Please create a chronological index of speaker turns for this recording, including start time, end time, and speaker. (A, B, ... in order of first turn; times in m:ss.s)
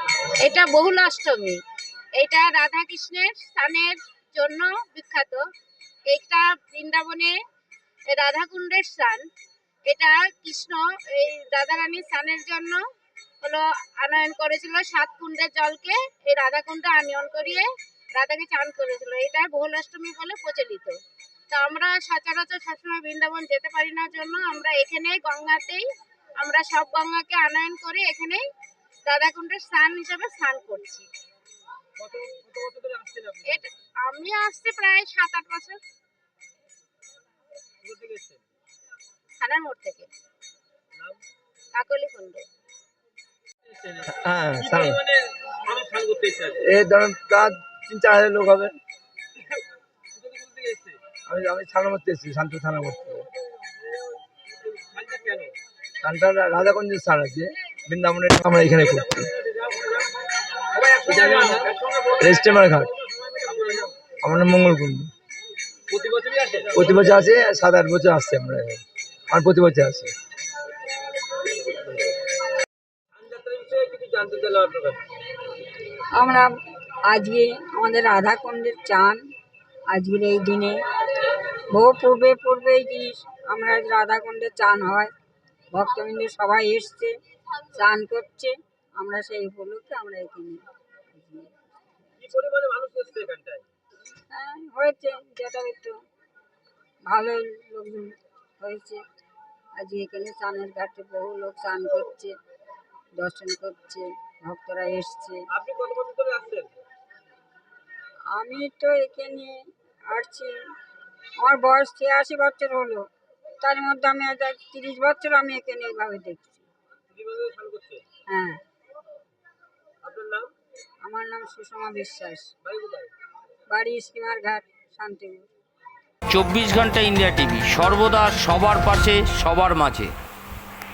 0:00.4-0:01.6 A
0:02.2-0:05.4 A
0:06.1-0:07.4 A
0:08.1-0:09.2 A
0:09.9-0:12.8 A
0:13.4-0:21.0 A
0:21.5-0:25.8 A
0:26.4-0:28.4 A
0:29.1-0:31.1 A
0:32.0-0:33.6 B
0:33.4-0:35.8 A
0:37.8-0:38.4 B
0:39.4-0:40.1 A
0:41.8-0:42.4 A
0:43.7-0:46.6 B
0:44.1-0:45.0 C
0:46.6-0:48.8 C
0:50.2-0:51.0 B
0:51.3-0:53.3 C
0:54.7-0:55.6 B
0:56.0-0:59.3 C
0:58.9-1:00.0 B
1:00.7-1:04.0 B
1:02.2-1:02.9 C
1:04.2-1:05.1 C
1:05.9-1:07.0 B
1:06.7-1:10.1 C
1:13.2-1:15.0 B
1:16.2-1:16.5 D
1:17.1-1:19.2 D
1:19.9-1:20.8 D
1:21.7-1:25.1 D
1:25.7-1:27.1 D
1:27.7-1:31.5 D
1:32.2-1:33.6 B
1:34.3-1:36.0 D
1:37.1-1:39.0 D
1:39.8-1:42.3 D
1:43.2-1:45.4 D
1:45.5-1:46.7 B
1:48.3-1:50.6 D
1:51.4-1:53.0 D
1:53.6-1:56.6 D
1:57.1-1:58.0 B
1:58.3-1:58.6 D
2:00.0-2:00.5 B
2:01.0-2:02.5 D
2:02.6-2:03.1 B
2:03.7-2:05.4 D
2:06.3-2:10.1 E